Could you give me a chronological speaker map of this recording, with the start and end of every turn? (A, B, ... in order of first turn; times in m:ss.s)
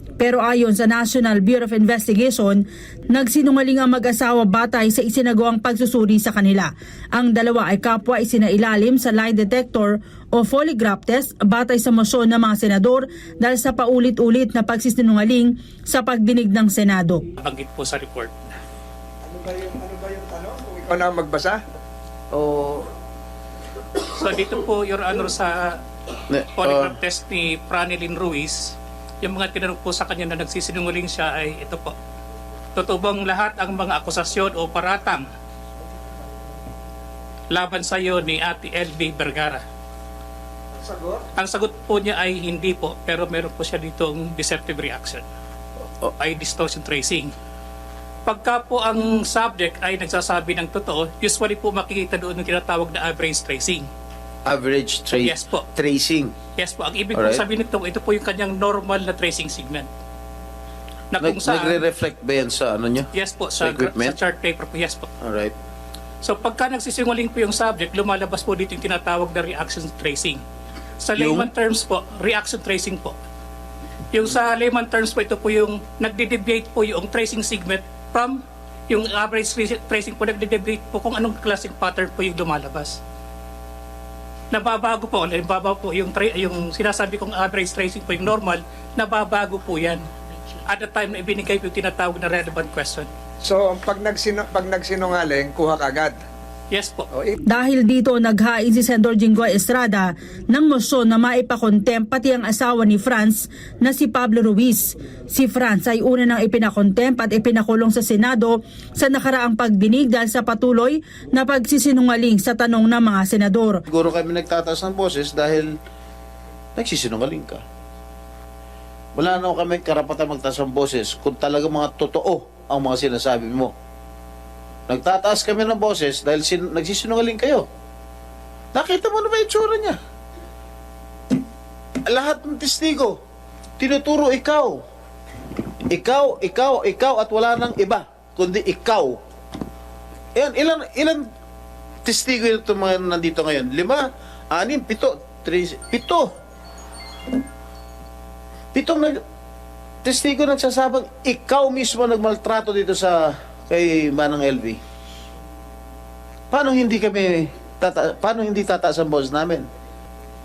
0:00.2-0:17.2 A
0:17.4-0:18.3 B
0:19.4-0:21.5 C
0:22.3-0:22.8 C
0:24.0-0:25.8 B
0:26.3-0:27.0 D
0:26.6-0:31.9 B
0:32.8-0:35.3 B
0:37.5-0:39.6 B
0:40.9-0:41.2 C
0:41.4-0:45.2 B
0:46.2-0:47.3 B
0:48.3-0:53.9 B
0:54.5-0:56.3 D
0:55.2-0:55.6 B
0:56.6-0:59.9 B
0:57.1-0:57.4 D
1:01.1-1:01.8 B
1:01.2-1:04.2 D
1:03.2-1:05.1 B
1:05.2-1:05.5 D
1:06.2-1:10.4 B
1:11.0-1:13.2 B
1:11.2-1:11.5 D
1:14.1-1:23.0 B
1:24.5-1:30.0 B
1:30.7-1:33.1 B
1:33.4-1:36.2 C
1:36.7-1:37.1 B
1:37.5-1:53.8 A
1:53.9-1:55.8 D
1:56.8-1:57.6 D
1:59.2-2:03.7 D
2:04.9-2:07.7 D
2:08.7-2:10.0 D
2:12.0-2:13.2 D
2:13.8-2:14.8 D
2:15.9-2:19.2 D
2:20.4-2:21.3 D
2:22.0-2:26.3 D
2:28.7-2:29.2 D
2:30.0-2:34.8 D
2:36.5-2:39.7 D